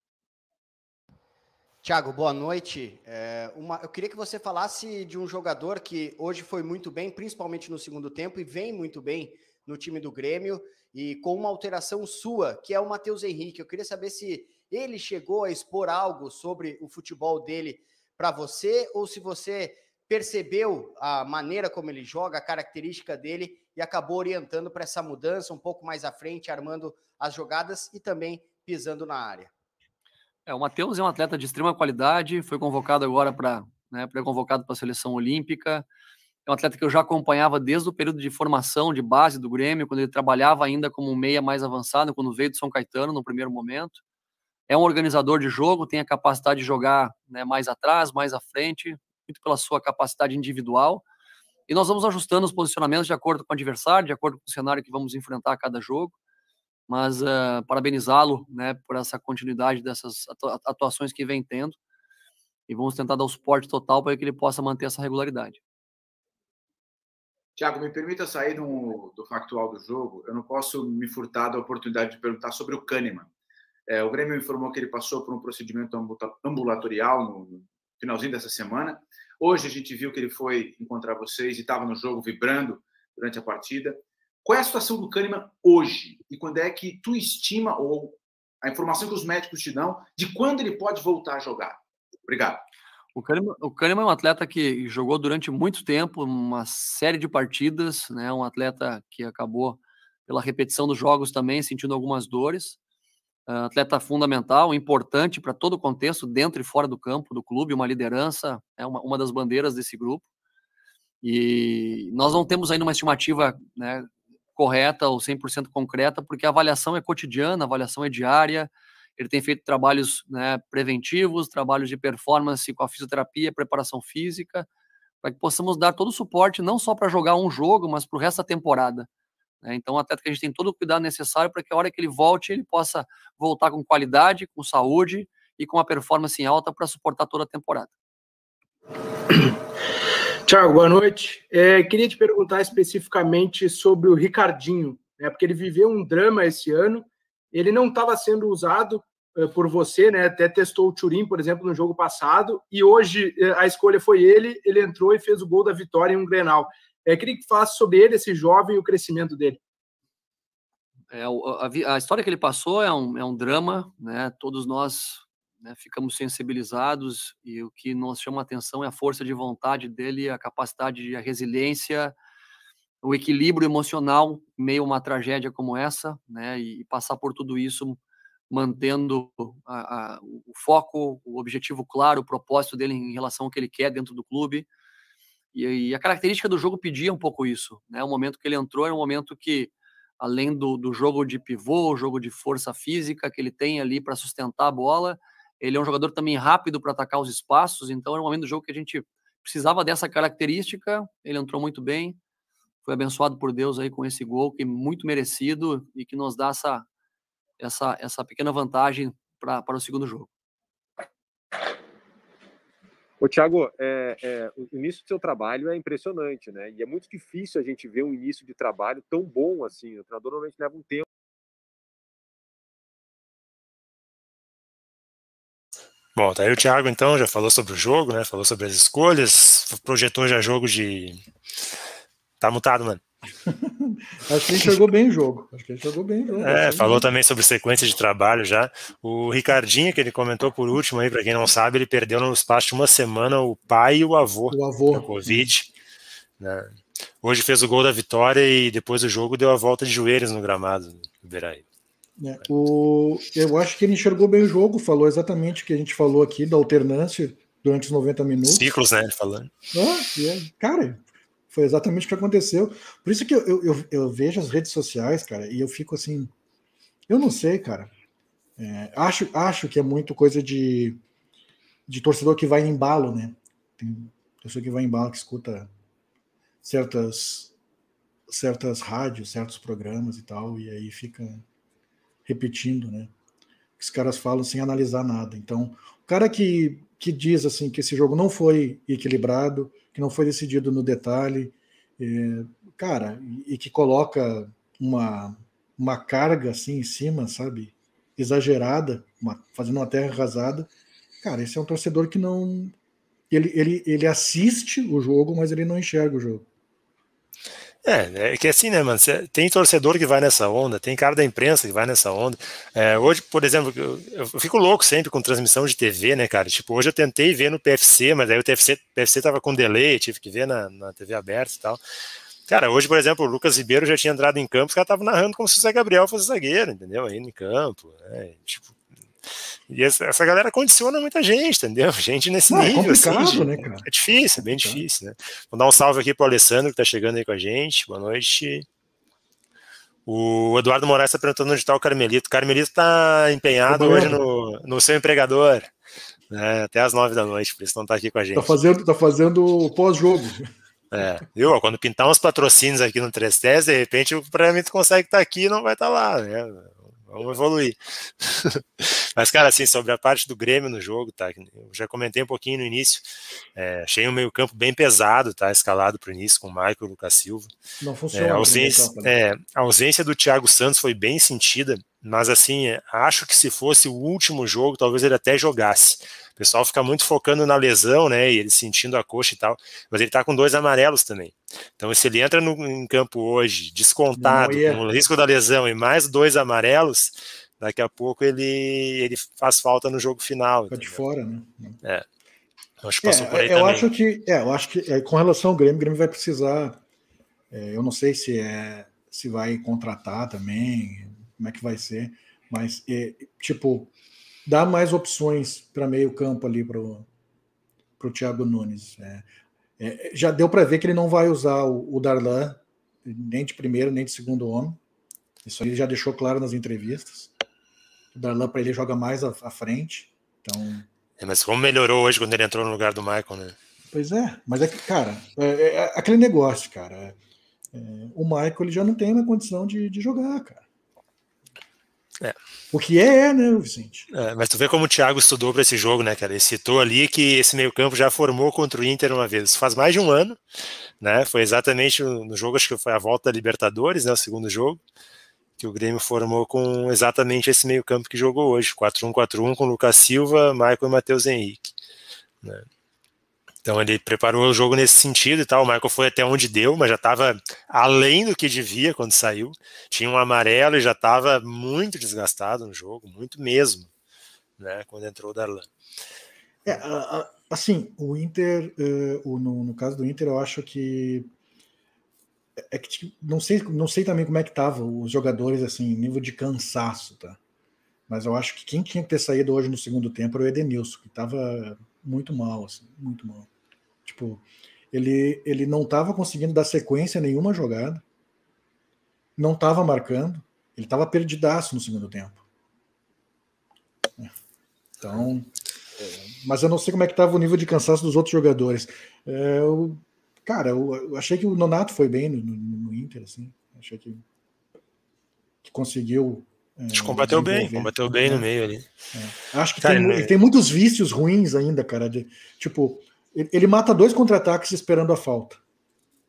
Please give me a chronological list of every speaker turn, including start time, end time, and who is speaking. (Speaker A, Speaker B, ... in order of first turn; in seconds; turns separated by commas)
Speaker A: 1.8-29.5, Speaker B: 30.5-35.9, Speaker B: 36.5-44.0, Speaker B: 44.7-51.0, Speaker B: 51.7-56.1, Speaker B: 56.9-61.8, Speaker B: 62.7-65.6, Speaker C: 67.5-73.3, Speaker C: 73.9-92.6, Speaker B: 93.1-102.8, Speaker B: 103.5-110.2, Speaker B: 111.2-124.7, Speaker B: 125.2-129.1, Speaker B: 129.6-137.9, Speaker D: 140.4-159.6, Speaker B: 161.1-172.1, Speaker B: 173.0-178.0, Speaker B: 178.5-184.7, Speaker B: 185.5-202.2, Speaker B: 202.8-206.8, Speaker B: 207.6-210.3, Speaker E: 213.2-221.1, Speaker F: 226.2-231.2, Speaker F: 232.4-233.0, Speaker G: 233.4-237.1, Speaker F: 236.3-245.7, Speaker G: 244.5-245.5, Speaker F: 246.4-251.6, Speaker G: 252.2-258.6, Speaker F: 258.5-259.5, Speaker G: 259.7-266.3, Speaker G: 267.1-267.9, Speaker G: 268.6-271.0, Speaker G: 271.9-275.7, Speaker G: 276.6-277.5, Speaker G: 278.3-281.4, Speaker G: 282.2-283.1, Speaker G: 283.8-300.7, Speaker G: 301.2-302.7, Speaker G: 303.3-306.4, Speaker F: 307.8-321.8, Speaker F: 322.5-328.7, Speaker F: 329.7-338.6, Speaker G: 332.5-333.9, Speaker G: 334.4-334.8, Speaker F: 340.1-345.7, Speaker G: 343.7-344.2, Speaker F: 346.3-348.5, Speaker G: 348.3-350.5, Speaker F: 350.9-367.5, Speaker G: 367.8-369.1, Speaker F: 368.1-391.0, Speaker G: 384.1-384.8, Speaker G: 390.7-391.8, Speaker F: 392.8-393.9, Speaker G: 393.0-396.8, Speaker G: 397.5-403.9, Speaker G: 404.4-407.1, Speaker G: 408.0-409.2, Speaker G: 409.8-414.8, Speaker G: 415.4-417.3, Speaker G: 418.1-420.9, Speaker F: 421.2-423.6, Speaker G: 423.9-427.2, Speaker G: 427.7-430.6, Speaker G: 432.7-434.1, Speaker F: 434.1-440.4, Speaker F: 441.0-444.8, Speaker F: 445.6-451.7, Speaker F: 453.6-463.9, Speaker F: 464.6-465.7, Speaker G: 466.6-471.3, Speaker G: 472.6-477.4, Speaker G: 478.1-483.5, Speaker G: 484.0-488.0, Speaker G: 489.4-492.4, Speaker G: 495.0-504.2, Speaker G: 505.6-508.5, Speaker F: 506.9-508.9, Speaker G: 509.1-515.6, Speaker F: 509.8-510.3